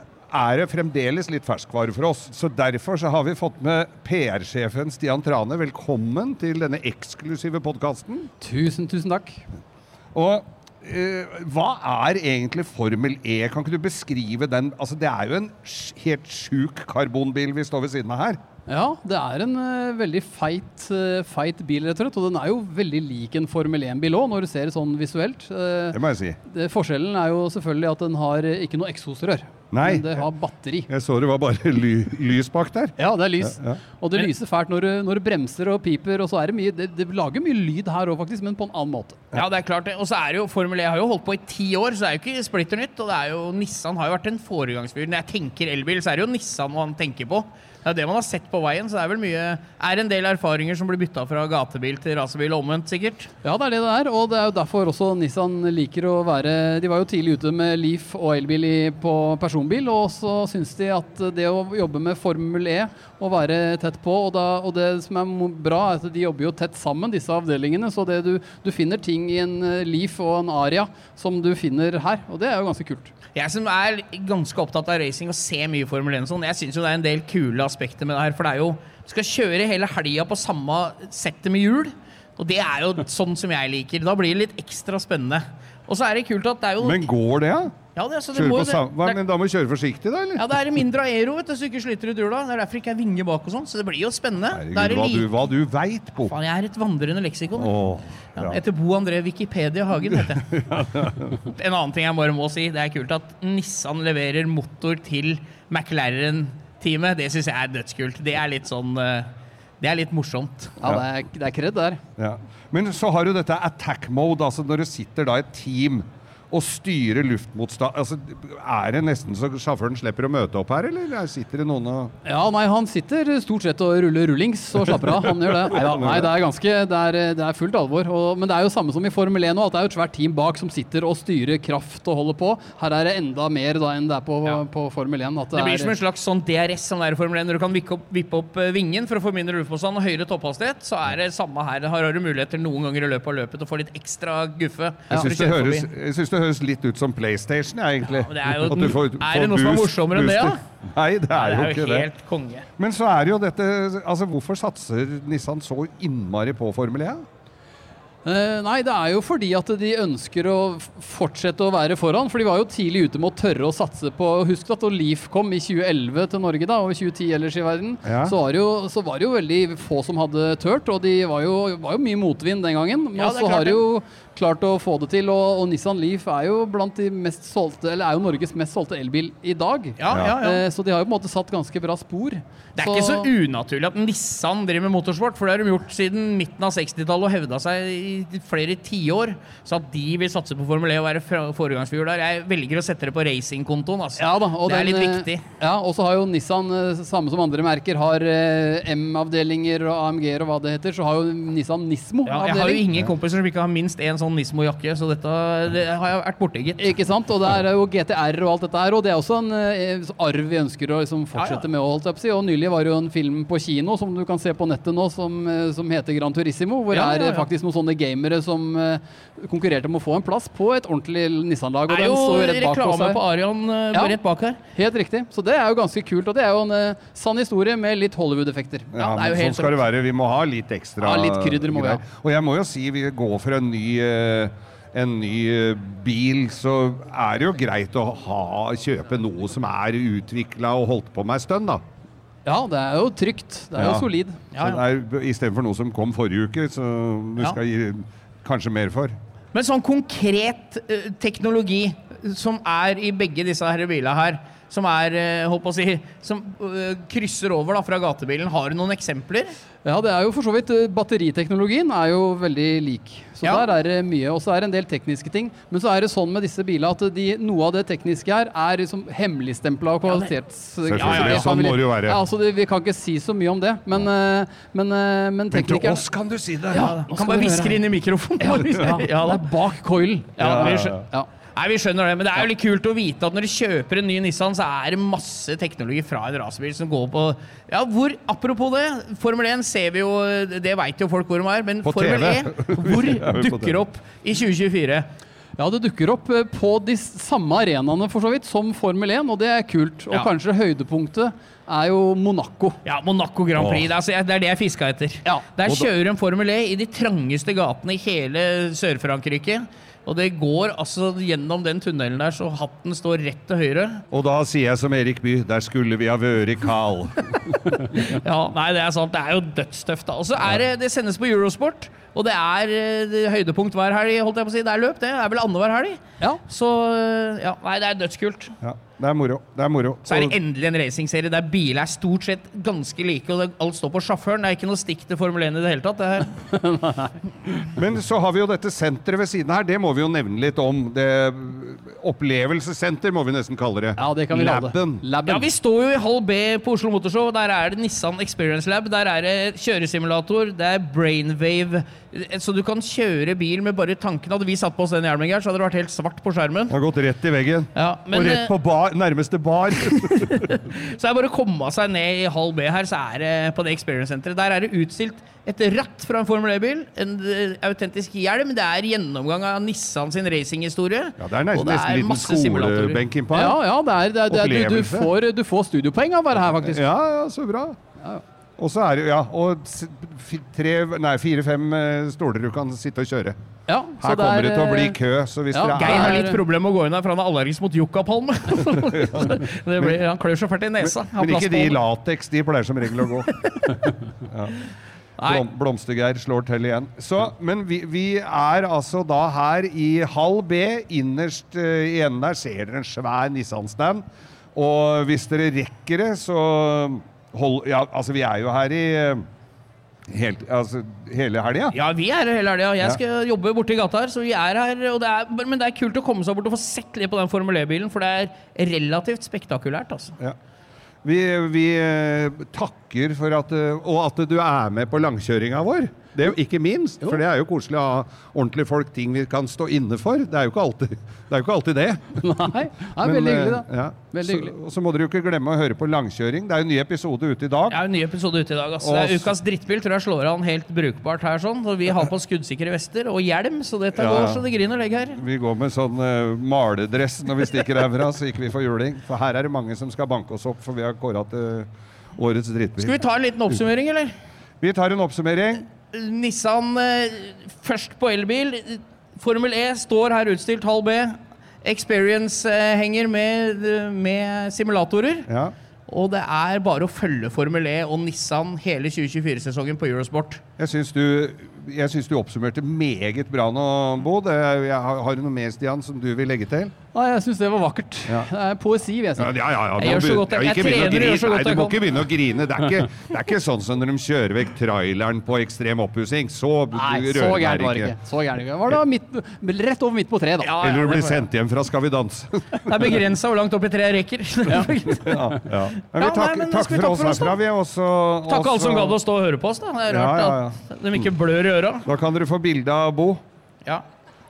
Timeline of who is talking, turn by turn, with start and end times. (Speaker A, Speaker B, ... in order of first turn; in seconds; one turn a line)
Speaker A: 0.3-8.3
Speaker B: 8.4-9.4
Speaker A: 10.1-18.4
Speaker B: 18.7-30.9
Speaker A: 25.9-26.4
Speaker A: 29.7-30.2
Speaker A: 30.9-33.8
Speaker B: 33.0-39.2
Speaker C: 39.3-53.3
Speaker B: 53.4-73.1
Speaker C: 73.3-87.1
Speaker A: 86.8-87.7
Speaker C: 87.9-89.2
Speaker A: 88.3-90.4
Speaker C: 90.4-95.3
Speaker A: 94.5-96.3
Speaker C: 96.2-97.7
Speaker A: 97.5-98.6
Speaker C: 98.3-100.6
Speaker A: 100.1-101.3
Speaker C: 101.4-110.8
Speaker B: 110.8-112.0
Speaker A: 112.2-122.1
Speaker B: 122.2-135.9
Speaker A: 125.6-126.3
Speaker C: 135.5-145.9
Speaker A: 145.1-152.1
Speaker C: 148.1-150.6
Speaker C: 151.3-152.7
Speaker A: 152.8-157.2
Speaker B: 158.2-183.3
Speaker A: 168.0-168.3
Speaker C: 173.2-173.8
Speaker C: 180.0-180.6
Speaker A: 180.1-180.3
Speaker C: 182.8-195.4
Speaker B: 194.2-202.8
Speaker C: 202.2-206.9
Speaker B: 206.8-223.2
Speaker C: 211.3-211.6
Speaker C: 216.9-217.5
Speaker C: 221.9-224.6
Speaker B: 224.7-228.9
Speaker A: 228.9-241.8
Speaker C: 228.9-229.8
Speaker B: 231.0-232.0
Speaker B: 242.4-244.4
Speaker A: 243.8-249.1
Speaker C: 244.5-244.8
Speaker C: 249.5-259.5
Speaker B: 259.8-276.0
Speaker A: 270.8-272.2
Speaker C: 271.0-271.5
Speaker A: 275.5-277.0
Speaker B: 276.7-277.8
Speaker C: 276.7-279.4
Speaker B: 278.4-281.3
Speaker C: 280.4-281.0
Speaker A: 280.4-281.0
Speaker C: 281.5-295.1
Speaker A: 291.8-293.8
Speaker B: 295.6-302.8
Speaker C: 302.8-314.0
Speaker A: 303.6-303.9
Speaker A: 305.6-305.9
Speaker A: 314.1-317.4
Speaker C: 317.8-328.5
Speaker A: 328.6-330.4
Speaker C: 330.0-336.4
Speaker B: 336.4-337.1
Speaker A: 337.7-345.0
Speaker B: 343.9-345.5
Speaker C: 345.2-356.7
Speaker A: 356.7-360.5
Speaker C: 357.7-358.5
Speaker C: 360.0-373.0
Speaker A: 371.2-373.6
Speaker B: 373.3-376.8
Speaker A: 374.3-375.1
Speaker A: 376.5-377.8
Speaker A: 378.6-383.4
Speaker B: 383.7-385.0
Speaker A: 384.0-386.3
Speaker B: 385.5-386.4
Speaker C: 385.7-391.8
Speaker A: 390.8-393.3
Speaker A: 394.3-394.6
Speaker A: 395.2-404.0
Speaker A: 404.5-409.2
Speaker A: 410.1-411.8
Speaker C: 411.7-420.1
Speaker A: 421.0-432.2
Speaker B: 432.2-434.5
Speaker A: 433.0-437.8
Speaker C: 437.7-445.2
Speaker A: 438.8-439.3
Speaker A: 443.9-444.4
Speaker A: 445.1-453.0
Speaker C: 452.8-454.1
Speaker A: 454.6-455.6
Speaker C: 455.8-465.3
Speaker A: 465.3-465.5
Speaker C: 465.9-470.4
Speaker A: 470.6-476.7
Speaker B: 476.9-479.3
Speaker A: 479.2-487.9
Speaker C: 479.8-481.8
Speaker B: 486.7-490.6
Speaker C: 490.4-491.3
Speaker A: 490.6-492.7
Speaker C: 492.6-495.3
Speaker A: 494.5-499.0
Speaker C: 495.9-497.4
Speaker C: 498.3-501.9
Speaker A: 499.9-501.1
Speaker A: 501.8-503.2